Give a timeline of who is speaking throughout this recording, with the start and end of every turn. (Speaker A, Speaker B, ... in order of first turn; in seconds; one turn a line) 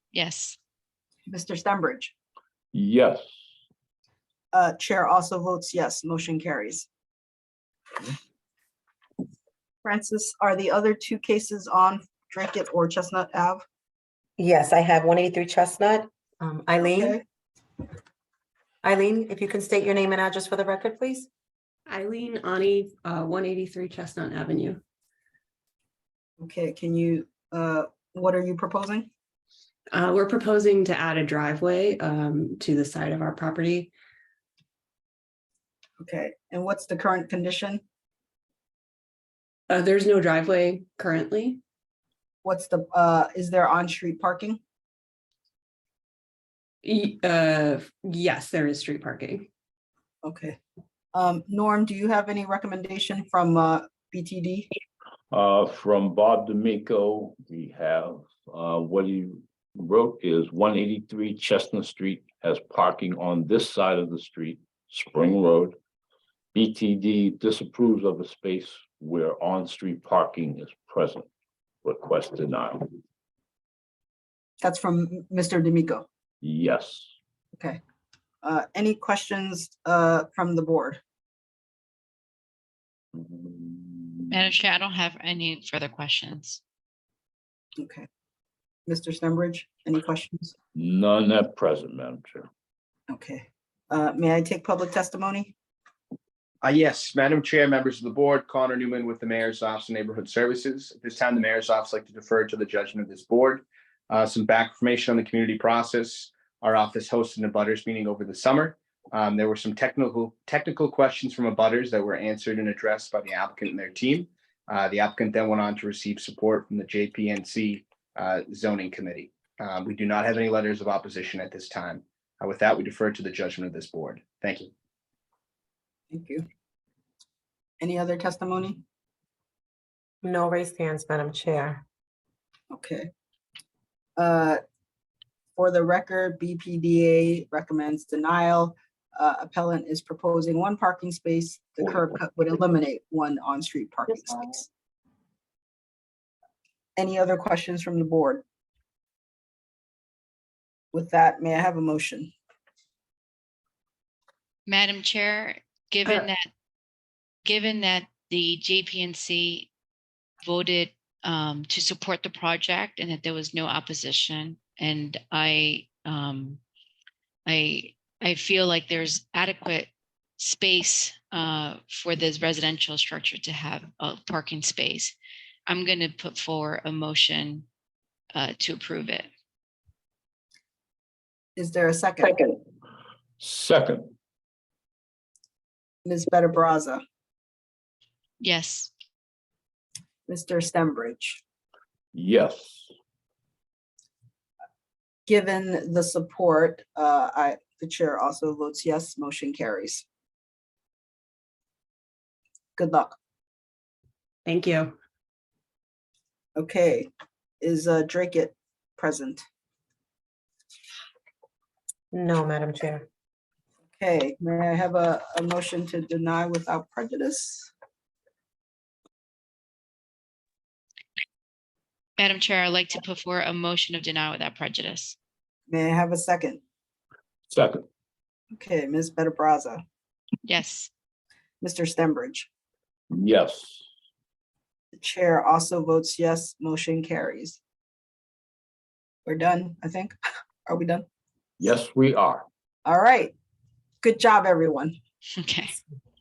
Speaker A: 0.1-0.6
Speaker B: 1.3-2.1
Speaker C: 2.7-3.2
Speaker B: 4.5-6.9
Speaker B: 9.8-13.6
Speaker D: 14.4-17.2
Speaker B: 16.8-17.2
Speaker D: 18.8-21.3
Speaker E: 21.9-24.8
Speaker B: 26.4-29.1
Speaker E: 29.9-33.9
Speaker B: 36.0-37.8
Speaker E: 39.7-41.6
Speaker B: 42.4-44.6
Speaker E: 46.8-49.5
Speaker B: 50.2-50.6
Speaker B: 51.1-54.7
Speaker C: 55.3-65.8
Speaker C: 66.5-71.3
Speaker C: 71.8-72.9
Speaker B: 74.6-76.1
Speaker C: 76.4-77.1
Speaker B: 78.4-81.0
Speaker C: 83.2-84.2
Speaker A: 84.3-86.6
Speaker B: 87.8-88.1
Speaker B: 88.9-90.5
Speaker C: 90.8-92.5
Speaker B: 93.1-95.5
Speaker F: 96.6-124.7
Speaker B: 126.1-126.5
Speaker B: 127.8-128.8
Speaker D: 130.2-131.8
Speaker B: 132.7-133.1
Speaker B: 134.2-134.6
Speaker B: 135.6-144.7
Speaker B: 147.0-148.4
Speaker B: 150.9-152.3
Speaker A: 154.7-156.4
Speaker A: 157.4-159.7
Speaker A: 160.4-166.6
Speaker A: 167.5-175.1
Speaker A: 175.7-177.7
Speaker A: 178.3-179.3
Speaker B: 181.6-182.5
Speaker C: 183.4-184.1
Speaker B: 186.1-187.0
Speaker A: 188.4-188.9
Speaker B: 190.3-191.4
Speaker C: 192.1-192.9
Speaker B: 195.3-200.1
Speaker B: 202.8-203.2
Speaker E: 204.4-204.9
Speaker B: 206.6-207.1
Speaker B: 207.6-209.4
Speaker D: 212.1-213.1
Speaker B: 214.0-217.7
Speaker A: 222.2-225.2
Speaker B: 225.7-226.6
Speaker C: 227.5-227.8
Speaker B: 228.6-229.8
Speaker A: 230.4-230.9
Speaker B: 231.6-232.5
Speaker C: 233.1-233.8
Speaker B: 235.0-237.6
Speaker B: 239.3-241.1
Speaker C: 241.6-242.5
Speaker B: 242.8-243.3
Speaker B: 244.0-245.0
Speaker A: 245.3-245.8